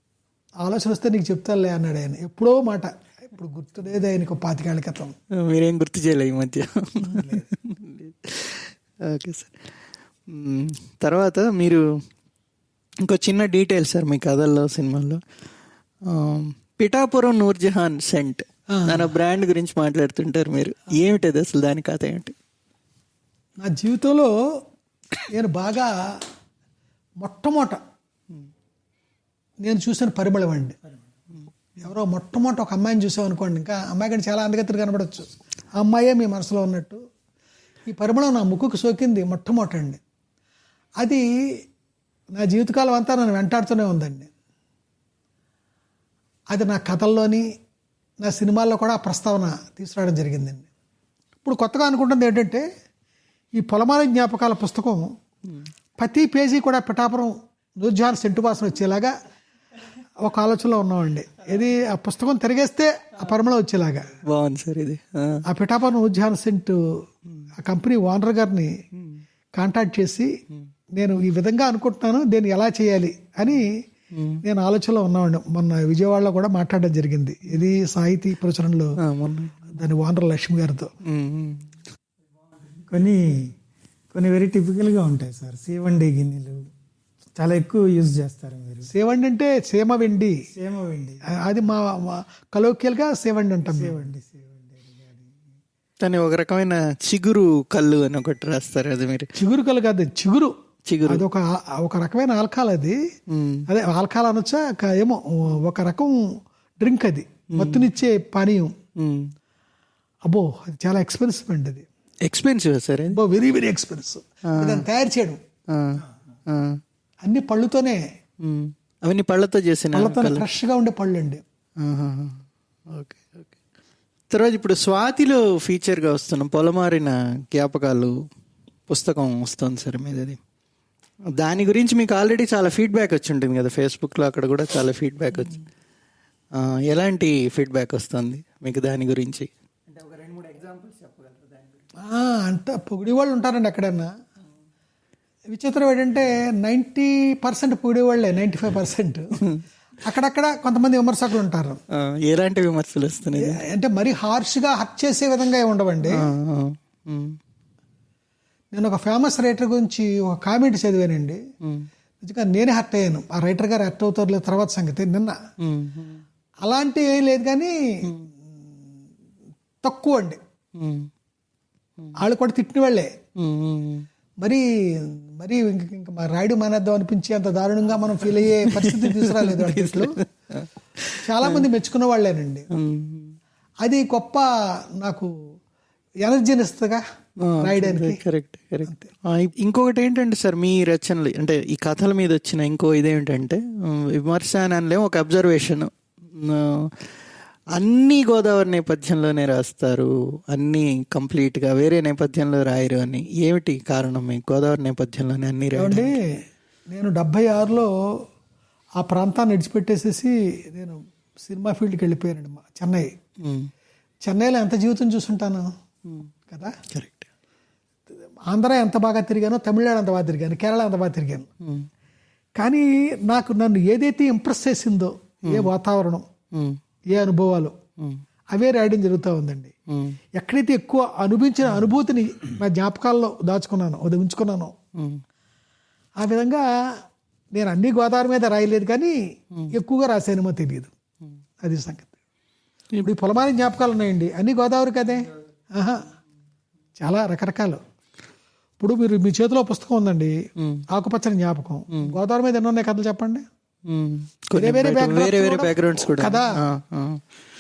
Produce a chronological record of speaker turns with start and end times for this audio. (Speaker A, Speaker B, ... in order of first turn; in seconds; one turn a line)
Speaker A: 0.6-5.1
Speaker B: 5.4-9.6
Speaker A: 7.0-7.5
Speaker B: 10.3-11.8
Speaker B: 13.0-15.2
Speaker B: 16.1-22.3
Speaker A: 18.7-19.1
Speaker A: 23.6-24.6
Speaker A: 25.3-26.2
Speaker A: 27.2-27.8
Speaker A: 29.6-30.8
Speaker A: 31.8-37.0
Speaker A: 37.9-40.0
Speaker A: 41.0-41.6
Speaker A: 42.3-44.3
Speaker A: 46.5-47.5
Speaker A: 48.2-50.6
Speaker A: 51.4-52.6
Speaker A: 53.5-55.1
Speaker A: 56.0-59.1
Speaker A: 60.2-64.2
Speaker B: 64.2-65.4
Speaker A: 65.5-67.0
Speaker A: 67.6-68.7
Speaker A: 69.5-70.3
Speaker A: 70.9-73.8
Speaker B: 74.1-74.4
Speaker A: 74.4-79.0
Speaker B: 79.0-79.7
Speaker A: 79.7-80.9
Speaker B: 81.0-81.7
Speaker C: 82.7-83.5
Speaker C: 84.1-86.7
Speaker C: 87.3-88.9
Speaker A: 88.9-90.4
Speaker C: 90.5-91.3
Speaker A: 91.3-94.0
Speaker C: 93.7-95.3
Speaker B: 96.0-99.3
Speaker A: 99.4-100.5
Speaker B: 100.9-101.2
Speaker A: 101.0-103.0
Speaker B: 103.3-103.6
Speaker A: 103.7-108.7
Speaker B: 107.5-107.8
Speaker B: 109.0-109.3
Speaker A: 110.2-111.8
Speaker B: 112.2-113.2
Speaker A: 113.1-115.4
Speaker B: 114.5-114.8
Speaker B: 115.7-116.8
Speaker A: 117.2-118.0
Speaker B: 118.4-120.5
Speaker A: 119.9-121.4
Speaker B: 121.8-123.5
Speaker B: 124.3-128.1
Speaker B: 128.9-130.4
Speaker B: 131.4-135.6
Speaker B: 136.5-141.6
Speaker A: 142.0-144.2
Speaker A: 145.5-149.3
Speaker A: 150.0-151.8
Speaker B: 151.9-153.6
Speaker A: 153.4-156.3
Speaker B: 156.1-157.4
Speaker A: 158.7-161.4
Speaker A: 162.2-165.4
Speaker B: 165.6-166.2
Speaker A: 166.6-168.1
Speaker A: 169.8-170.4
Speaker B: 170.8-171.1
Speaker A: 172.2-173.1
Speaker B: 173.4-174.1
Speaker A: 174.4-180.2
Speaker B: 178.6-181.7
Speaker A: 181.2-182.7
Speaker B: 182.7-183.3
Speaker A: 183.8-185.3
Speaker A: 186.2-187.0
Speaker B: 187.4-197.0
Speaker A: 187.6-188.2
Speaker B: 197.7-206.1
Speaker A: 205.8-207.9
Speaker A: 209.0-213.1
Speaker B: 213.4-213.7
Speaker A: 214.2-215.7
Speaker A: 216.5-216.8
Speaker B: 216.9-217.3
Speaker A: 218.5-221.5
Speaker B: 221.6-221.9
Speaker A: 222.6-226.2
Speaker B: 226.5-226.8
Speaker A: 227.1-227.7
Speaker A: 228.5-229.7
Speaker B: 229.9-230.2
Speaker A: 230.3-234.7
Speaker B: 234.9-235.2
Speaker A: 236.2-237.0
Speaker A: 237.5-239.2
Speaker A: 239.7-240.9
Speaker A: 241.6-242.1
Speaker A: 243.0-246.1
Speaker A: 247.0-247.8
Speaker A: 248.8-253.4
Speaker B: 250.6-250.8
Speaker B: 253.9-257.2
Speaker A: 254.6-256.6